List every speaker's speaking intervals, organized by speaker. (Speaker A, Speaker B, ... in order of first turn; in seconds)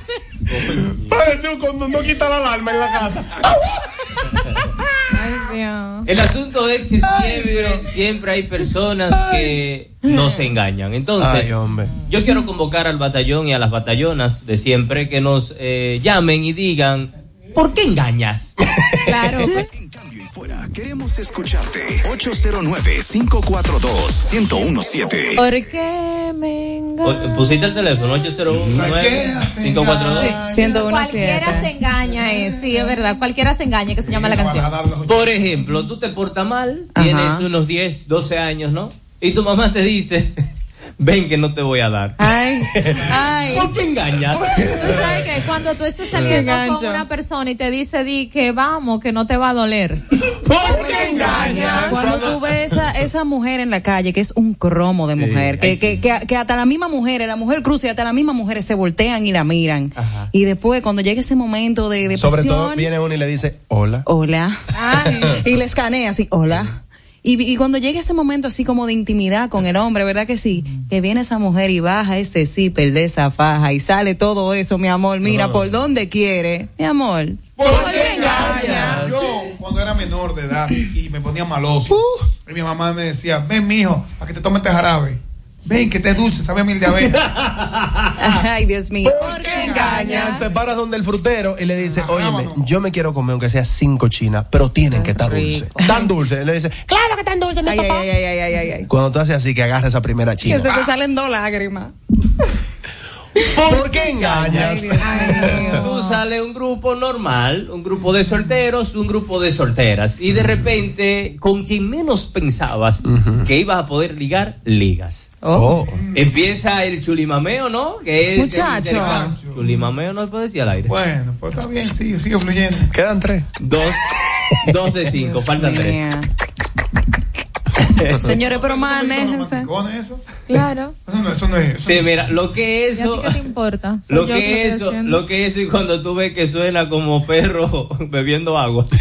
Speaker A: 0.5-1.2, 6.1-11.5, 12.1-18.6, 27.0-30.4, 35.1-40.4, 41.0-42.2, 42.9-45.2, 50.4-52.3, 55.2-56.0, 60.0-60.3, 87.2-88.3, 103.6-115.3, 116.1-121.0, 123.6-124.0, 124.6-126.0, 131.8-133.4, 134.1-138.9
Speaker B: 1.0-3.7, 11.2-11.9, 50.7-52.4, 62.1-64.1, 75.2-75.9, 78.5-79.1, 89.0-97.8, 98.9-100.8, 103.5-105.7, 110.3-110.7, 113.0-113.5, 115.5-116.0, 122.9-123.5
Speaker C: 5.1-6.1, 19.1-19.6, 25.4-27.2, 30.2-34.7, 44.6-50.0, 50.7-51.9, 64.7-65.4, 77.7-78.9, 89.2-90.4, 105.1-106.0, 130.5-130.9, 133.0-135.2
Speaker D: 10.1-10.4, 30.4-31.7, 37.0-37.5, 42.2-43.7, 46.2-47.0, 50.7-62.9, 64.1-64.6, 65.2-79.1, 81.9-82.3, 88.2-90.4, 94.9-96.1, 97.6-98.9, 100.4-101.9, 104.4-105.9, 118.3-119.4, 125.2-126.3, 128.2-129.7
Speaker E: 19.6-25.4
Speaker F: 28.6-31.0, 32.2-32.5, 34.0-35.5, 77.6-87.3, 89.2-90.3, 91.9-92.6, 115.9-116.3, 118.5-119.7, 120.9-122.9, 128.3-130.2, 131.1-132.2